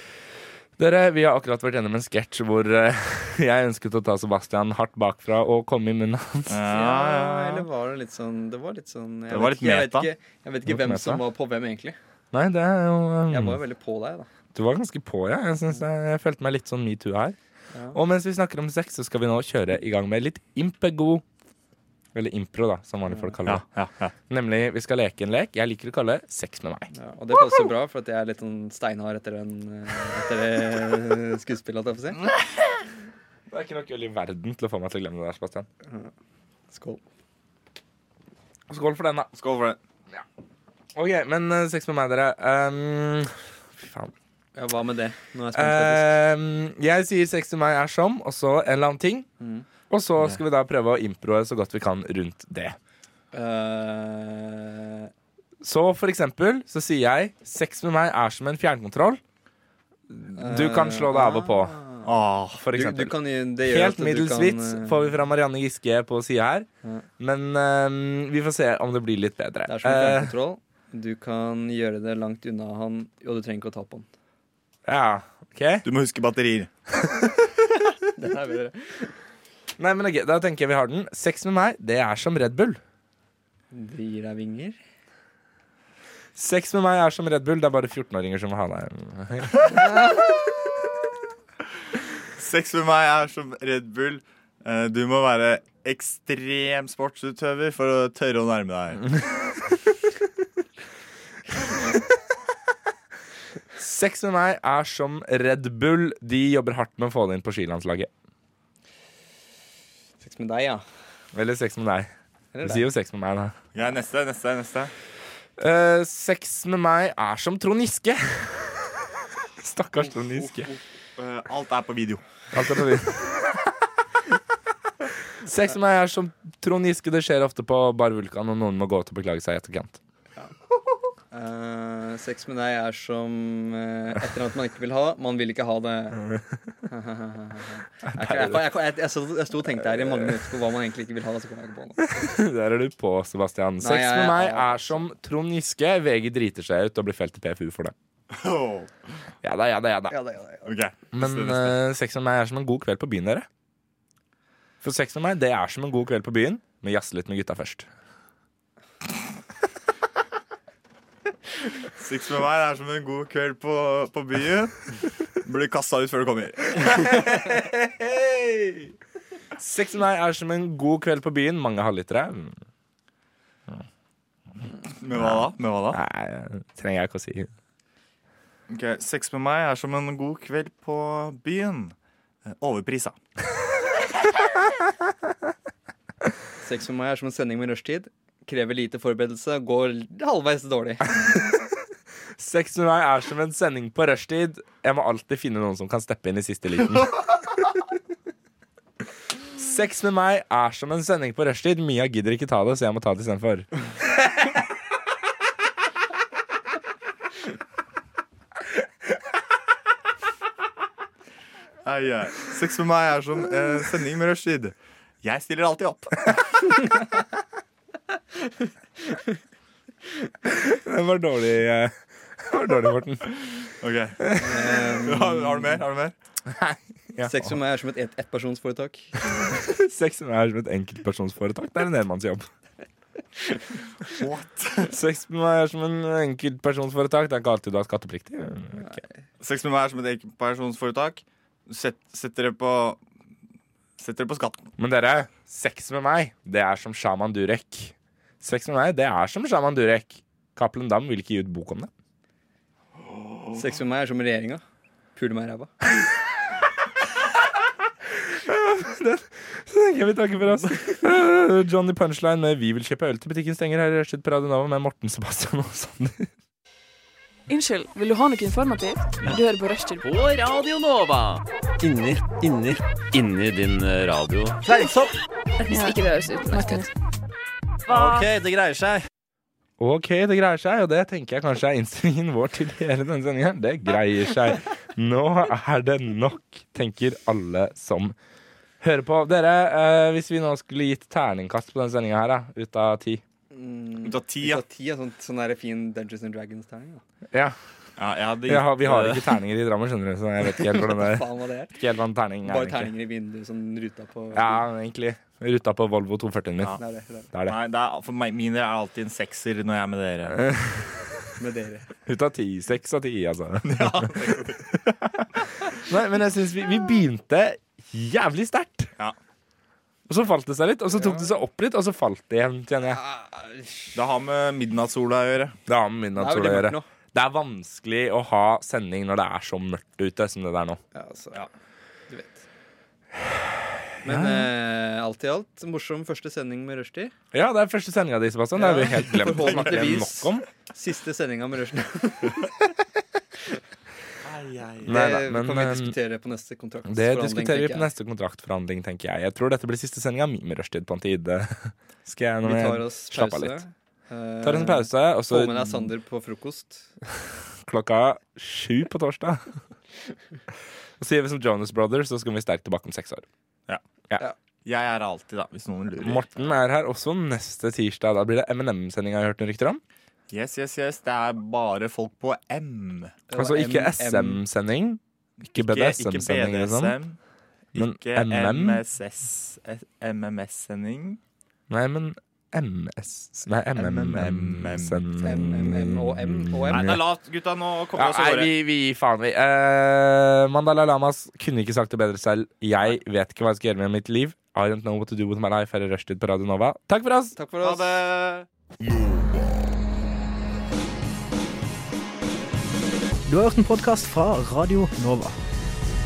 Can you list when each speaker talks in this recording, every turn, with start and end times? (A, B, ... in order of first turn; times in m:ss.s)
0:00.8-0:06.6 A
0:06.5-0:07.7 B
0:06.7-0:12.0 C
0:09.3-0:10.1 B
0:10.7-0:11.2 A
0:12.3-0:13.6 A
0:13.3-0:14.3 C
0:14.6-0:17.4 A
0:17.7-0:18.0 C
0:17.9-0:21.2 A
0:22.2-0:23.6 A
0:23.4-0:24.1 B
0:24.3-0:26.9 A
0:26.9-0:32.2 C
0:33.5-0:35.7 A
0:35.8-0:36.1 C
0:36.7-0:37.0 C
0:38.7-0:39.3 A
0:39.3-0:39.8 B
0:41.0-0:44.1 A
0:44.6-0:46.2 C
0:45.6-0:49.3 A
0:49.4-0:49.7 C
0:49.9-0:52.8 A
0:53.3-0:55.1 C
0:55.6-0:59.2 A
1:00.1-1:01.8 A
1:00.4-1:02.1 C
1:02.0-1:02.6 B
1:02.6-1:06.7 A
1:02.7-1:05.1 C
1:07.2-1:10.3 A
1:09.7-1:14.1 C
1:14.9-1:15.9 A
1:15.8-1:16.7 B
1:18.2-1:19.1 C
1:19.8-1:22.8 A
1:23.7-1:24.8 C
1:26.4-1:29.8 A
1:29.7-1:30.0 C
1:32.4-1:39.0 B
1:43.8-1:48.1 A
1:50.2-1:50.8 C
1:51.3-1:52.1 A
1:52.5-1:52.8 C
1:52.6-1:53.6 A
1:53.7-1:54.9 B
1:55.6-1:58.9 A
1:59.6-2:00.7 A
2:00.6-2:02.2 B
2:02.5-2:03.4 A
2:05.4-2:10.0 A
2:11.3-2:16.2 C
2:16.9-2:22.0 C
2:18.1-2:18.7 A
2:19.8-2:20.4 A
2:22.0-2:27.9 A
2:23.8-2:25.0 C
2:28.3-2:28.9 B
2:29.4-2:30.2 A
2:30.1-2:30.7 C
2:30.6-2:31.8 B
2:31.1-2:33.5 A
2:34.8-2:37.9 A
2:42.0-2:44.7 B
2:45.4-2:47.1 B
2:47.2-2:48.9 A
2:49.6-2:52.6 A
2:54.9-2:56.0 B
2:55.2-2:57.5 A
2:58.7-3:02.0 B
3:02.5-3:03.2 B
3:06.6-3:11.1 C
3:12.4-3:17.2 A
3:19.6-3:23.7 A
3:31.8-3:36.8 B
3:40.5-3:43.4 A
3:43.8-3:44.2 B
3:44.2-3:44.6 A
3:44.3-3:45.7 C
3:45.0-3:46.2 B
3:46.5-3:47.6 A
3:47.2-3:49.1 C
3:49.4-3:52.5 A
3:54.1-3:55.0 B
3:54.9-3:59.0 A
3:59.4-4:03.0 B
4:04.0-4:04.7 B
4:04.8-4:11.9 A
4:13.5-4:14.6 C
4:15.2-4:15.7 C
4:18.3-4:26.3 A
4:27.5-4:30.1 D
4:30.0-4:34.7 E
4:34.6-4:35.1 B
4:35.6-4:36.9 D
4:37.9-4:39.0 B
4:39.8-4:48.2 A
4:48.8-4:53.2 A
4:53.5-4:57.0 C
4:54.0-4:54.6 B
4:58.0-4:59.4 B
4:58.5-5:01.2 A
5:00.5-5:01.8 C
5:01.8-5:02.9 A
5:02.4-5:04.6 C
5:04.3-5:06.8 A
5:06.8-5:07.3 C
5:07.3-5:07.6 A
5:07.5-5:10.4 B
5:10.4-5:11.0 A
5:11.4-5:11.9 C
5:12.1-5:18.9 A
5:13.6-5:14.8 B
5:20.1-5:23.0 A
5:20.9-5:21.3 C
5:22.9-5:23.9 C
5:23.9-5:25.6 B
5:25.7-5:30.8 A
5:26.2-5:26.9 C
5:30.9-5:31.5 C
5:32.1-5:32.4 C
5:34.0-5:37.1 C
5:34.1-5:34.5 A
5:37.3-5:40.5 A
5:38.6-5:42.6 C
5:44.2-5:45.0 B
5:44.9-5:46.0 A
5:44.9-5:47.9 C
5:46.9-5:53.6 A
5:52.4-5:56.9 C
5:54.4-5:55.9 A
5:57.6-5:59.5 A
6:01.0-6:03.2 A
6:04.6-6:06.3 B
6:06.0-6:09.8 A
6:10.3-6:13.2 B
6:13.3-6:14.4 C
6:13.4-6:17.0 A
6:15.6-6:17.2 B
6:17.8-6:18.8 A
6:17.8-6:21.2 B
6:21.7-6:27.0 A
6:23.8-6:25.1 B
6:25.2-6:26.9 C
6:26.7-6:28.5 B
6:27.9-6:37.4 A
6:37.4-6:38.0 C
6:37.6-6:39.3 B
6:43.3-6:45.4 F